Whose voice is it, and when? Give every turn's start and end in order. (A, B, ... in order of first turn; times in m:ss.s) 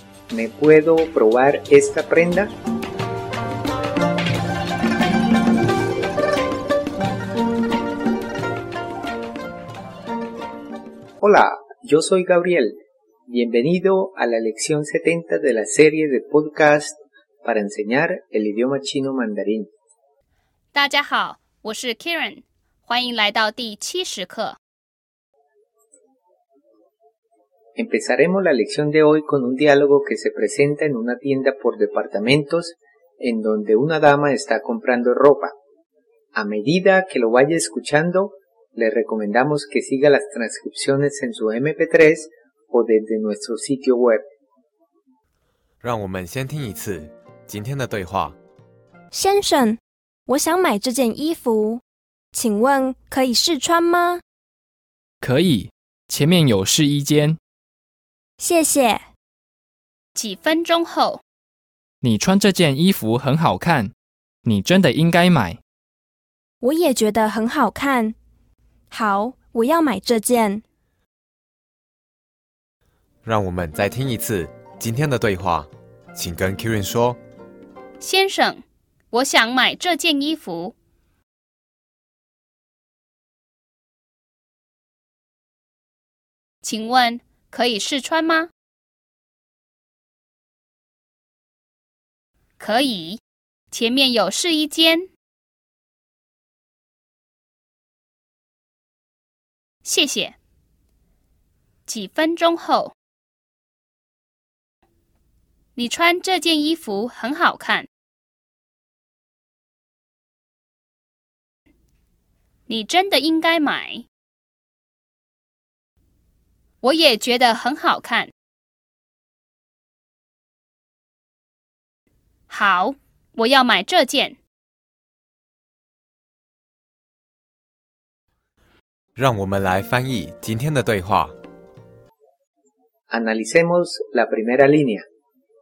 0:00.3-0:02.5 A
0:11.2-0:19.7 A
0:20.7-0:24.6 B
0:27.8-0:35.5 A
0:36.3-0:44.2 A
0:45.8-0:48.4 C
0:49.1-0:51.8 D
0:52.3-0:54.2 D
0:55.2-0:57.4 E
0:58.4-0:59.0 D
1:00.1-1:01.2 B
1:02.0-1:03.9 E
1:04.4-1:05.6 E
1:06.6-1:08.2 D
1:08.9-1:10.6 D
1:13.2-1:17.2 C
1:18.0-1:20.7 B
1:26.6-1:28.5 B
1:32.6-1:33.2 B
1:33.7-1:35.1 B
1:39.8-1:40.3 B
1:41.9-1:42.9 B
1:45.8-1:47.9 B
1:52.7-1:54.0 B
1:56.8-1:58.3 B
2:02.5-2:04.4 B
2:09.2-2:11.3 C
2:13.1-2:15.0 A